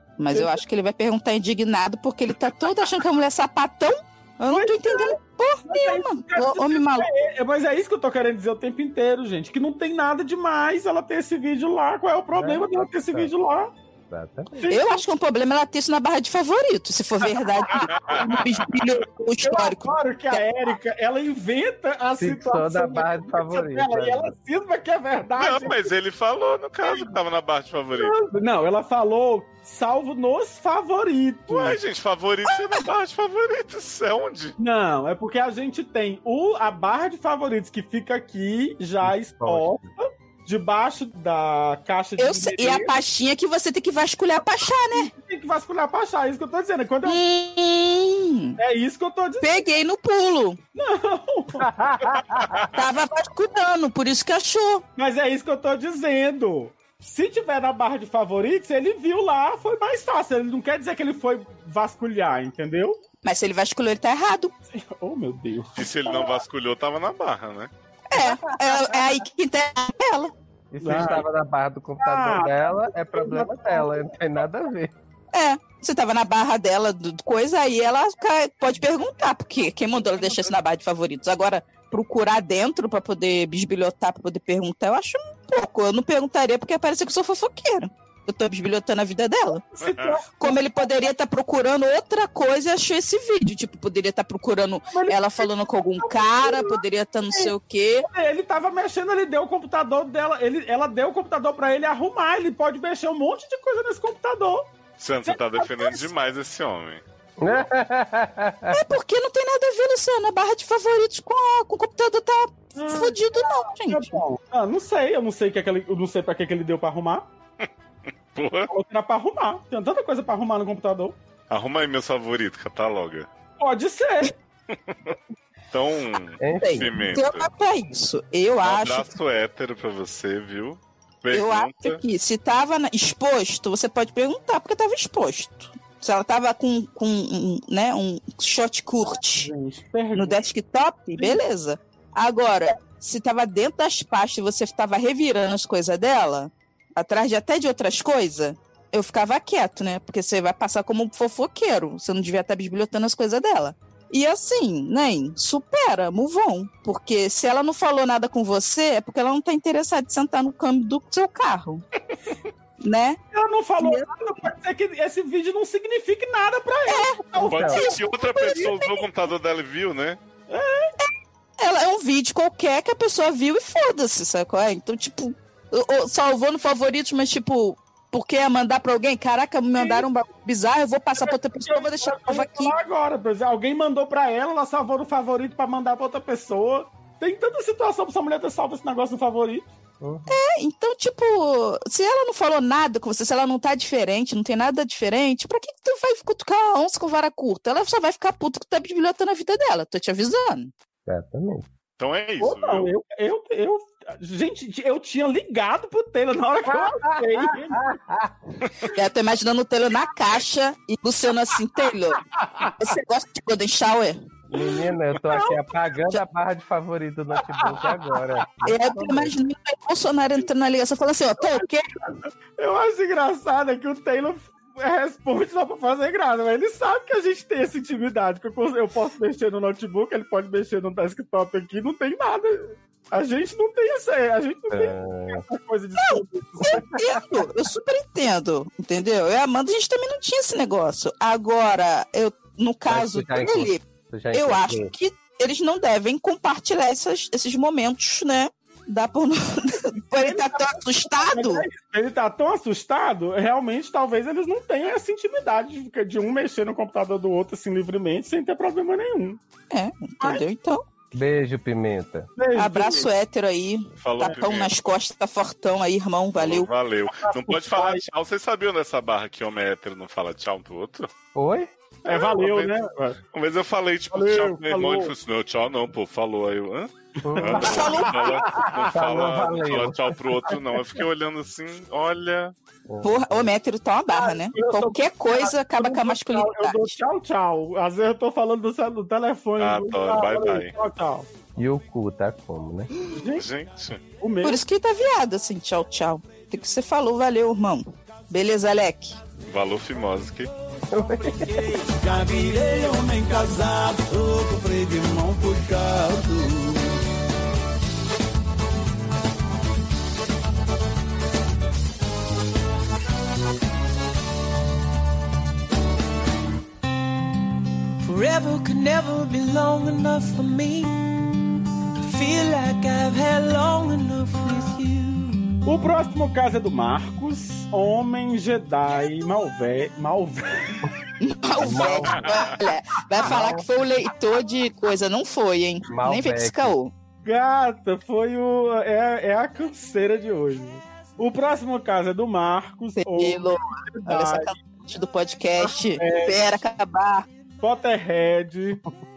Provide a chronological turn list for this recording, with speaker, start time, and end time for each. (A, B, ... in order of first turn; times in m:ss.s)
0:00.2-0:07.1 A
0:00.3-0:00.6 B
0:04.5-0:13.7 B
0:12.3-0:13.3 C
0:14.1-0:14.7 C
0:14.5-0:15.0 B
0:14.7-0:20.4 A
0:17.6-0:18.7 B
0:17.9-0:18.2 D
0:19.4-0:25.9 B
0:22.2-0:24.3 C
0:25.4-0:28.2 D
0:26.8-0:27.1 B
0:27.9-0:31.8 B
0:31.5-0:34.6 D
0:32.5-0:32.8 A
0:34.6-0:43.0 B
0:39.0-0:39.8 C
0:42.2-0:45.1 A
0:44.9-0:47.2 B
0:47.0-0:48.6 A
0:48.6-0:49.6 B
0:49.4-0:50.6 A
0:50.7-0:52.0 B
0:51.6-0:52.6 C
0:52.7-0:54.8 A
0:55.0-1:03.0 B
1:03.2-1:04.5 A
1:04.7-1:06.4 B
1:05.8-1:07.7 D
1:08.1-1:10.3 A
1:10.7-1:14.9 C
1:10.8-1:11.2 B
1:12.0-1:14.1 B
1:15.3-1:29.6 A
1:20.0-1:20.6 B
1:29.6-1:30.9 B
1:29.8-1:30.2 D
1:30.4-1:38.1 A
1:34.9-1:37.5 B
1:38.1-1:44.7 B
1:45.0-1:47.0 D
1:45.2-1:46.1 B
1:47.4-1:48.8 C
1:48.7-1:54.2 A
1:52.8-1:57.3 B
1:58.3-1:58.7 D
1:58.7-2:01.2 B
2:01.5-2:03.3 D
2:03.6-2:04.3 B
2:04.9-2:05.2 D
2:05.7-2:07.5 D
2:06.4-2:07.0 C
2:06.6-2:09.1 A
2:08.6-2:12.0 D
2:11.3-2:19.5 A
2:19.4-2:20.4 B
2:20.1-2:41.8 A
2:42.8-2:43.2 A
2:43.3-2:48.7 B
2:43.8-2:44.1 A
2:46.9-2:49.0 A
2:47.5-2:47.8 C
2:47.5-2:50.2 D
2:50.5-2:50.9 B
2:51.0-3:02.7 A
2:59.8-3:00.1 B
3:01.2-3:09.7 B
3:10.0-3:10.4 C
3:10.3-3:20.7 A
3:21.0-3:21.6 C
3:22.0-3:22.9 D
3:22.4-3:27.8 B
3:26.7-3:28.3 C
3:28.9-3:32.2 A
3:32.4-3:32.7 B
3:32.7-3:34.2 A
3:34.5-3:39.3 C
3:35.2-3:35.6 B
3:37.5-3:37.9 B
3:38.6-3:41.8 A
3:42.6-3:57.0 B
3:54.7-3:55.4 C
3:56.0-4:11.6 A
4:02.9-4:04.9 C
4:10.2-4:19.4 B
4:19.7-4:20.8 A
4:21.1-4:22.3 C
4:22.4-4:23.1 B
4:22.6-4:26.7 A
4:24.0-4:24.7 D
4:26.4-4:31.1 D
4:27.1-4:28.0 B
4:31.3-4:31.7 C
4:32.0-4:32.7 D
4:32.0-4:33.2 B
4:33.3-4:42.5 D
4:34.1-4:35.1 B
4:37.2-4:37.9 C
4:37.3-4:39.2 B
4:37.6-4:38.2 A
4:38.9-4:40.5 C
4:42.9-4:43.5 C
4:43.0-4:46.9 A
4:44.1-4:51.3 B
4:49.6-4:50.7 D
4:51.6-4:52.9 C
4:53.1-4:53.4 B
4:53.4-4:54.0 D
4:54.2-4:54.6 B
4:54.4-4:59.2 A
4:59.5-5:00.5 D
5:00.9-5:01.6 C
5:01.3-5:07.0 B
5:18.0-5:25.5 E
5:25.6-5:30.9 B
5:31.2-5:36.9 A
5:31.6-5:32.3 C
5:33.2-5:33.7 C
5:35.9-5:36.8 C
5:37.2-5:44.5 B
5:43.0-5:47.3 A
5:45.6-5:46.6 B
5:47.6-5:48.8 B